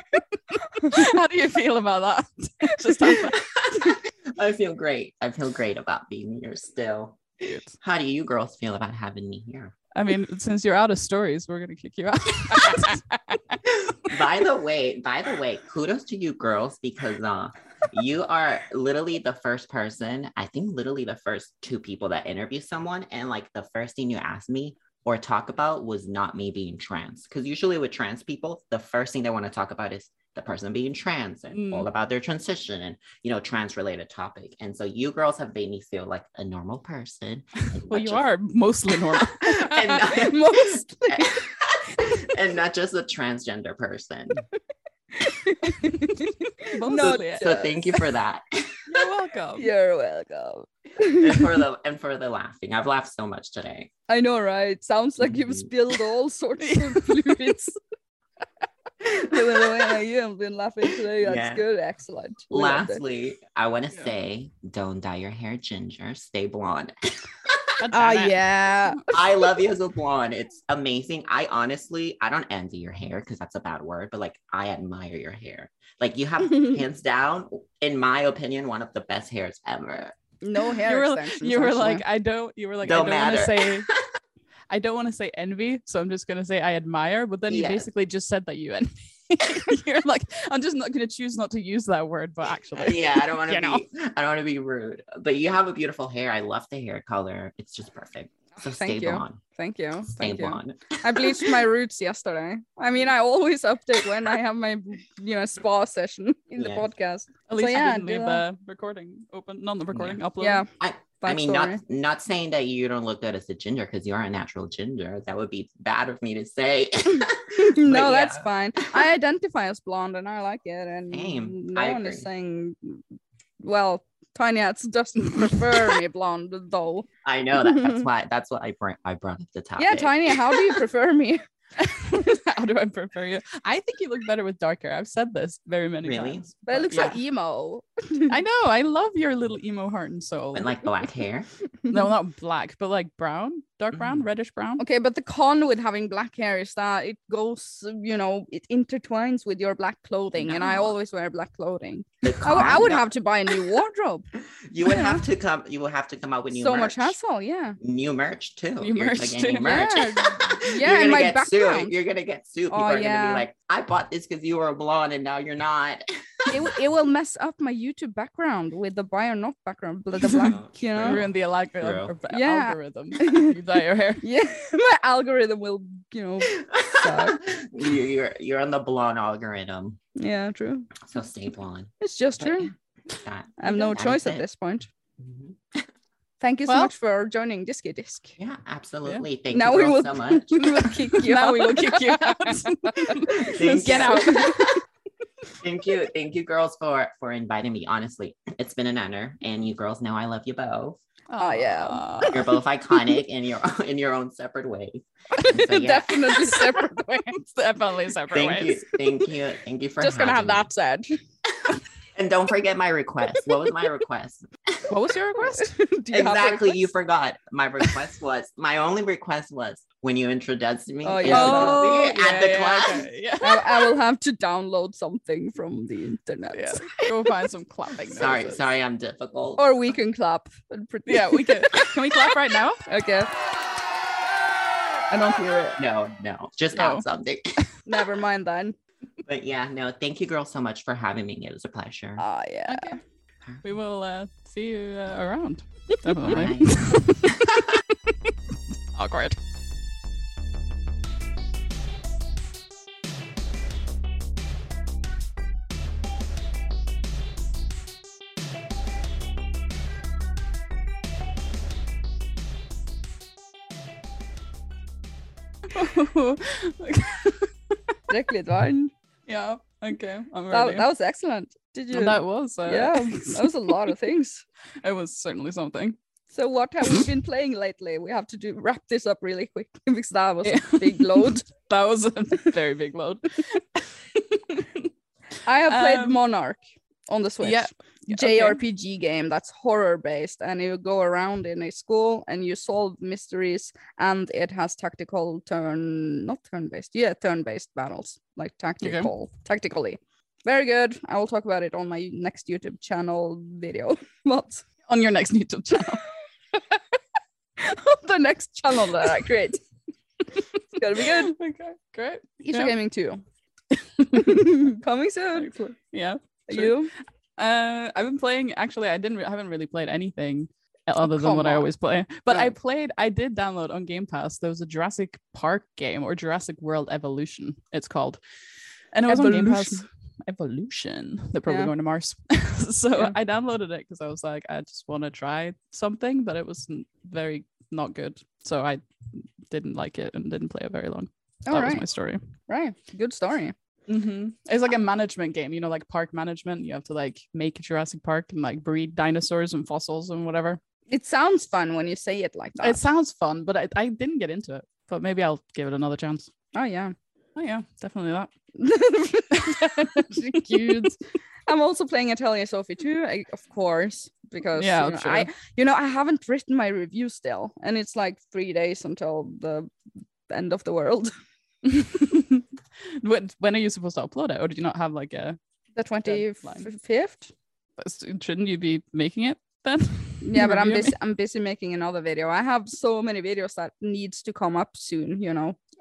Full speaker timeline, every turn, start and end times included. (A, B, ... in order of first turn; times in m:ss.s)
0:00.8-0:01.1 A
0:00.8-0:03.6 B
0:02.9-0:03.2 A
0:03.8-0:07.2 C
0:07.4-0:07.7 B
0:07.8-0:09.8 C
0:10.0-0:13.6 B
0:13.7-0:38.3 C
0:31.5-0:31.9 B
0:37.8-0:40.0 B
0:39.2-0:44.4 C
0:39.9-0:41.4 A
0:45.1-0:48.0 A
0:46.7-0:47.6 B
0:46.9-0:48.8 C
0:48.9-0:49.7 B
0:49.6-0:51.5 A
0:51.0-0:53.9 C
0:54.1-0:57.8 A
0:55.2-0:55.7 C
0:56.6-0:57.6 B
0:59.0-1:03.0 A
1:01.2-1:01.6 C
1:02.5-1:07.8 C
1:07.8-1:08.4 B
1:07.9-1:09.2 A
1:09.1-1:20.2 C
1:20.4-1:22.0 A
1:20.8-1:23.9 B
1:22.8-1:24.1 C
1:24.7-1:33.8 B
1:27.5-1:27.9 C
1:32.8-1:39.4 C
1:38.6-1:48.4 A
1:40.1-1:41.6 C
1:46.6-1:46.9 C
1:47.5-1:50.6 B
1:49.9-1:50.2 C
1:50.4-1:50.7 A
1:50.8-1:59.0 C
1:51.2-1:51.8 A
1:57.4-2:03.0 A
2:01.1-2:02.3 C
2:03.6-2:07.1 A
2:07.2-2:10.8 C
2:07.6-2:08.1 A
2:09.8-2:11.4 A
2:11.8-2:17.2 B
2:16.0-2:17.2 C
2:16.7-2:18.4 A
2:18.3-2:20.7 B
2:20.5-2:21.5 C
2:21.9-2:24.8 B
2:24.8-2:34.3 A
2:30.5-2:30.9 C
2:32.2-2:33.1 C
2:34.7-2:37.2 C
2:34.8-2:35.2 A
2:36.5-2:37.8 A
2:37.8-2:46.7 C
2:38.8-2:40.1 B
2:39.6-2:41.9 A
2:42.7-2:43.5 A
2:46.5-2:51.2 A
2:50.2-2:52.1 C
2:51.0-2:54.2 B
2:52.3-2:53.6 A
2:54.2-2:57.4 A
2:56.5-3:00.0 C
3:00.2-3:00.9 A
3:01.0-3:04.4 C
3:02.0-3:02.7 A
3:03.6-3:04.9 A
3:05.2-3:05.8 C
3:06.4-3:08.4 A
3:06.7-3:06.9 B
3:08.4-3:10.7 C
3:09.5-3:14.8 A
3:11.1-3:14.7 B
3:13.4-3:14.6 C
3:15.6-3:21.0 C
3:21.3-3:22.5 B
3:21.4-3:22.4 A
3:22.3-3:26.2 C
3:25.4-3:27.4 A
3:26.2-3:28.8 B
3:28.3-3:30.7 C
3:30.0-3:31.2 A
3:32.2-3:34.9 C
3:34.9-3:35.8 B
3:35.4-3:36.8 A
3:36.1-3:43.1 C
3:41.0-3:42.2 A
3:41.2-3:44.0 B
3:43.4-3:46.8 A
3:46.5-3:48.6 B
3:48.1-3:49.7 C
3:49.6-3:51.9 A
3:51.1-3:52.8 B
3:52.9-3:53.3 A
3:55.1-3:55.8 B
3:55.8-3:57.6 C
3:56.7-3:57.0 B
3:57.9-3:58.8 A
3:59.2-4:02.2 C
4:02.2-4:03.0 A
4:02.7-4:03.0 B
4:03.6-4:07.8 B
4:06.2-4:07.4 C
4:08.9-4:09.4 B
4:25.7-4:27.8 B
4:28.1-4:28.9 A
4:29.3-4:30.8 B
4:30.5-4:34.4 A
4:31.9-4:33.8 B
4:34.8-4:36.0 B
4:36.3-4:41.4 A
4:40.4-4:44.9 B
4:45.4-5:04.6 A
4:45.7-4:46.2 B
4:47.4-4:48.6 B
4:58.8-4:59.1 B
5:04.9-5:06.1 B
5:07.6-5:09.6 A
5:10.8-5:11.3 A
5:11.0-5:12.7 B
5:12.4-5:13.2 A
5:13.7-5:14.6 B
5:14.1-5:15.5 A
5:15.4-5:16.8 B
5:16.5-5:16.9 A
5:17.4-5:28.2 B
5:21.0-5:21.7 A
5:28.9-5:42.2 B
5:29.1-5:29.8 A
5:31.5-5:31.7 A
5:41.5-5:41.8 A
5:42.5-5:43.5 A
5:43.9-5:50.6 B
5:50.9-5:52.8 A
5:52.6-5:56.3 B
5:56.5-5:57.0 A
5:57.4-5:58.3 B
5:58.6-6:09.7 A
5:59.4-6:00.9 B
6:04.6-6:05.3 B
6:10.3-6:11.1 A
6:11.6-6:12.4 B
6:13.0-6:15.4 B
6:15.8-6:17.3 A
6:16.0-6:16.6 B
6:17.8-6:20.9 B
6:20.2-6:25.6 A